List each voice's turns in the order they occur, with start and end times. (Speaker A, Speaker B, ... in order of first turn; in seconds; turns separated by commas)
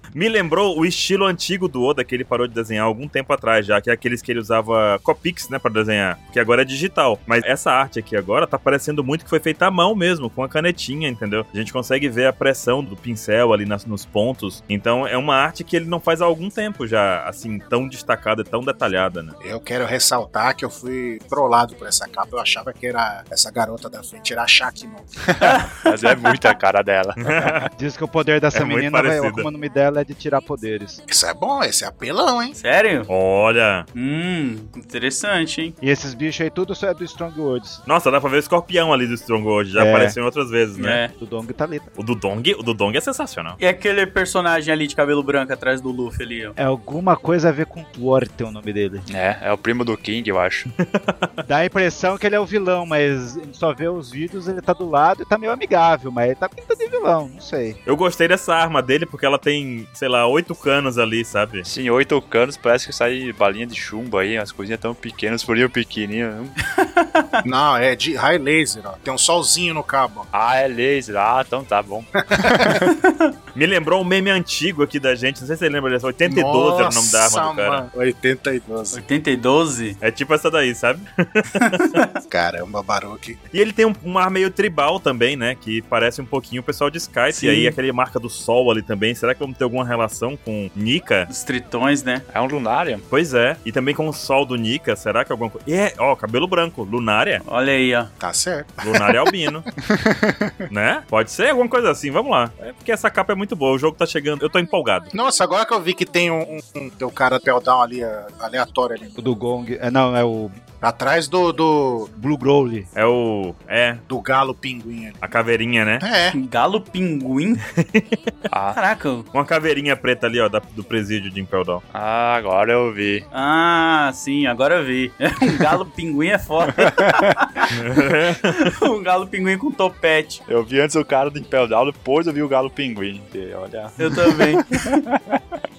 Speaker A: 0.1-19.4, Speaker B: 19.4-25.1, Speaker C: 25.3-27.6, Speaker D: 25.4-26.5, Speaker A: 27.2-27.7, Speaker E: 27.7-31.0, Speaker A: 28.5-29.5, Speaker B: 31.1-32.6, Speaker D: 32.6-33.1, Speaker A: 33.1-33.9, Speaker D: 33.9-35.7, Speaker E: 35.8-37.8, Speaker A: 37.9-41.0, Speaker E: 39.7-40.2, Speaker D: 40.8-41.1, Speaker E: 41.2-41.9, Speaker A: 42.0-43.6, Speaker D: 43.6-46.5, Speaker E: 46.6-49.0, Speaker C: 49.1-50.7, Speaker A: 50.8-51.3, Speaker E: 51.5-57.8, Speaker A: 57.9-61.6, Speaker C: 61.6-66.5, Speaker D: 66.8-67.4, Speaker B: 67.4-70.3, Speaker C: 70.3-72.8, Speaker B: 72.3-72.8, Speaker D: 72.8-73.3, Speaker A: 73.5-77.8, Speaker B: 76.2-79.0, Speaker D: 78.9-80.0, Speaker A: 80.0-82.0, Speaker D: 81.6-82.1, Speaker B: 82.3-83.4, Speaker A: 83.5-91.3, Speaker D: 87.3-87.8, Speaker D: 91.3-92.2, Speaker C: 92.3-93.0, Speaker A: 93.1-97.4, Speaker D: 97.4-98.1, Speaker B: 98.2-99.2, Speaker A: 98.8-99.6, Speaker C: 99.9-100.6, Speaker A: 100.7-105.1, Speaker B: 105.1-109.1, Speaker E: 109.2-110.6, Speaker B: 110.8-112.1, Speaker E: 112.2-112.9, Speaker A: 112.9-114.0, Speaker B: 114.1-115.2, Speaker A: 115.2-116.0, Speaker B: 116.0-116.4, Speaker D: 116.3-117.6, Speaker A: 117.7-118.1, Speaker C: 118.5-118.8, Speaker D: 118.7-119.3, Speaker A: 119.3-121.8, Speaker C: 121.9-123.2, Speaker D: 123.3-127.7, Speaker C: 126.9-127.3, Speaker A: 127.7-128.7, Speaker D: 128.5-130.4, Speaker C: 130.5-135.6, Speaker D: 134.0-135.0